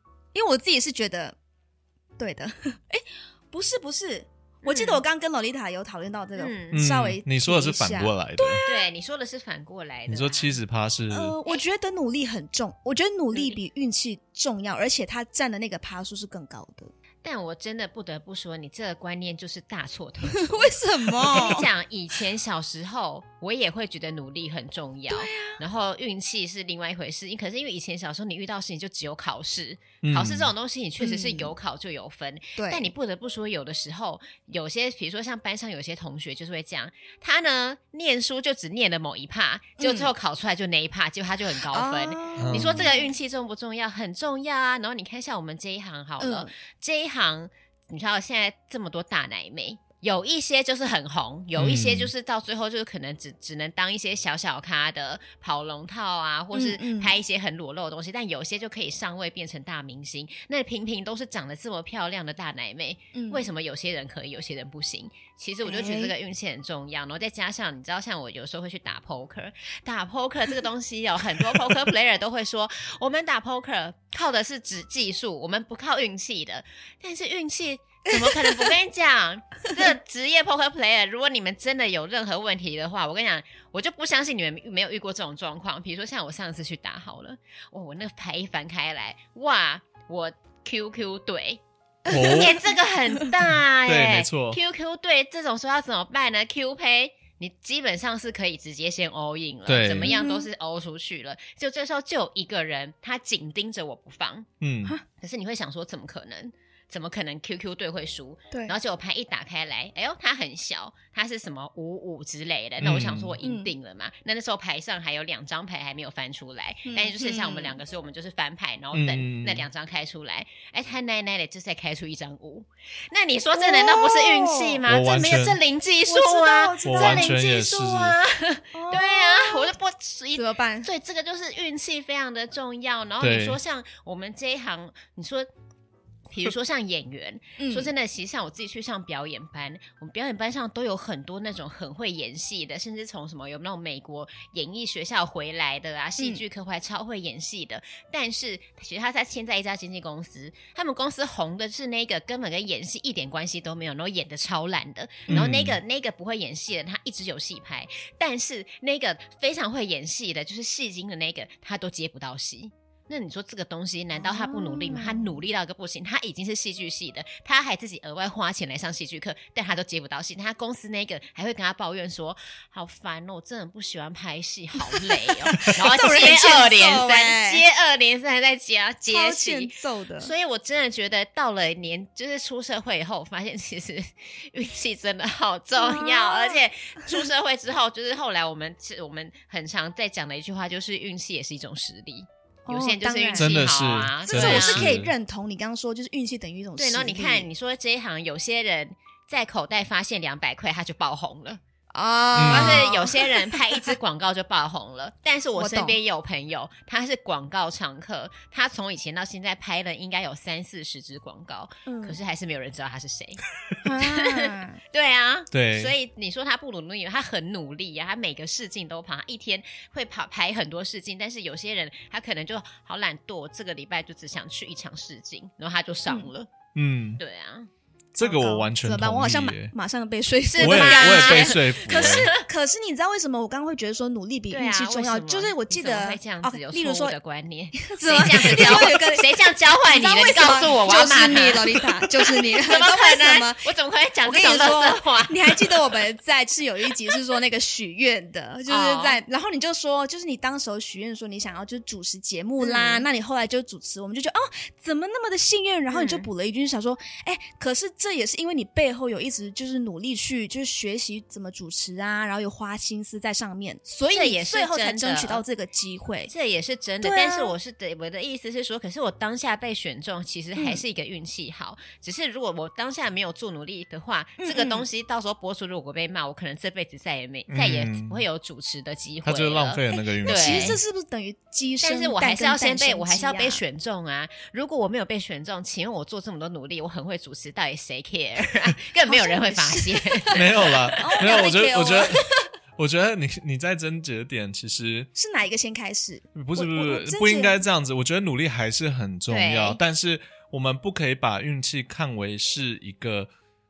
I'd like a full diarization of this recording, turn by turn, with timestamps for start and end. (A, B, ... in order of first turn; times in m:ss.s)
0:00.3-0:01.4 A
0:02.2-0:08.8 A
0:04.6-0:05.0 B
0:06.4-0:06.8 B
0:06.7-0:08.7 C
0:08.6-0:10.6 B
0:10.1-0:11.4 C
0:11.1-0:16.9 A
0:13.3-0:13.6 B
0:17.2-1:44.5 B
0:20.3-0:21.7 A
0:25.1-0:25.6 A
0:30.0-0:30.5 C
0:31.0-0:31.5 A
0:32.6-0:32.9 A
0:39.8-0:40.1 A
0:41.7-0:43.2 A
0:42.4-0:42.9 C
0:46.2-0:46.5 A
0:51.6-0:52.1 C
0:56.5-0:57.1 A
1:03.1-1:03.4 A
1:05.6-1:06.1 A
1:18.4-1:18.7 A
1:32.1-1:32.6 A
1:32.1-1:32.6 C
1:33.9-1:34.6 C
1:39.7-1:40.2 C
1:40.1-1:40.5 A
1:44.6-1:45.0 C
1:45.2-2:15.5 B
1:52.8-1:53.4 C
1:53.4-1:53.7 A
1:56.9-1:57.8 A
1:58.9-1:59.7 C
2:03.6-2:04.8 A
2:04.9-2:05.6 C
2:06.1-2:07.4 A
2:06.8-2:08.2 C
2:08.7-2:09.7 A
2:10.4-2:10.9 A
2:13.2-2:13.6 C
2:16.3-3:14.9 B
2:17.6-2:17.9 A
2:35.3-2:35.8 C
2:44.2-2:45.3 A
2:54.9-2:57.6 A
2:59.1-3:00.3 A
3:05.8-3:07.2 A
3:12.7-3:13.7 A
3:13.4-3:15.1 C
3:14.3-3:17.5 A
3:16.8-3:21.6 B
3:21.9-3:24.0 A
3:22.3-3:22.9 C
3:22.5-3:33.4 B
3:25.6-3:26.0 A
3:31.9-3:32.2 A
3:33.8-3:34.8 A
3:34.0-3:46.5 B
3:35.5-3:35.9 C
3:46.8-3:47.2 C
3:47.2-3:47.7 B
3:48.2-3:49.7 C
3:48.2-3:57.2 A
3:50.5-3:52.4 B
3:50.6-3:52.3 C
3:54.5-4:05.9 B
3:57.7-4:03.6 A
4:04.2-4:26.3 A
4:08.7-4:09.2 B
4:12.6-4:13.1 B
4:15.9-4:16.3 B
4:24.1-4:25.4 B
4:26.3-4:40.8 B
4:27.0-4:27.5 A
4:30.6-4:30.8 A
4:34.4-4:34.9 A
4:37.5-4:38.2 C
4:39.2-4:40.8 C
4:39.9-4:43.6 A
4:41.8-4:51.4 B
4:49.1-4:52.4 A
4:50.3-4:52.2 C
4:52.8-4:55.1 C
4:55.2-4:57.6 A
4:56.4-5:03.3 C
4:59.3-4:59.8 B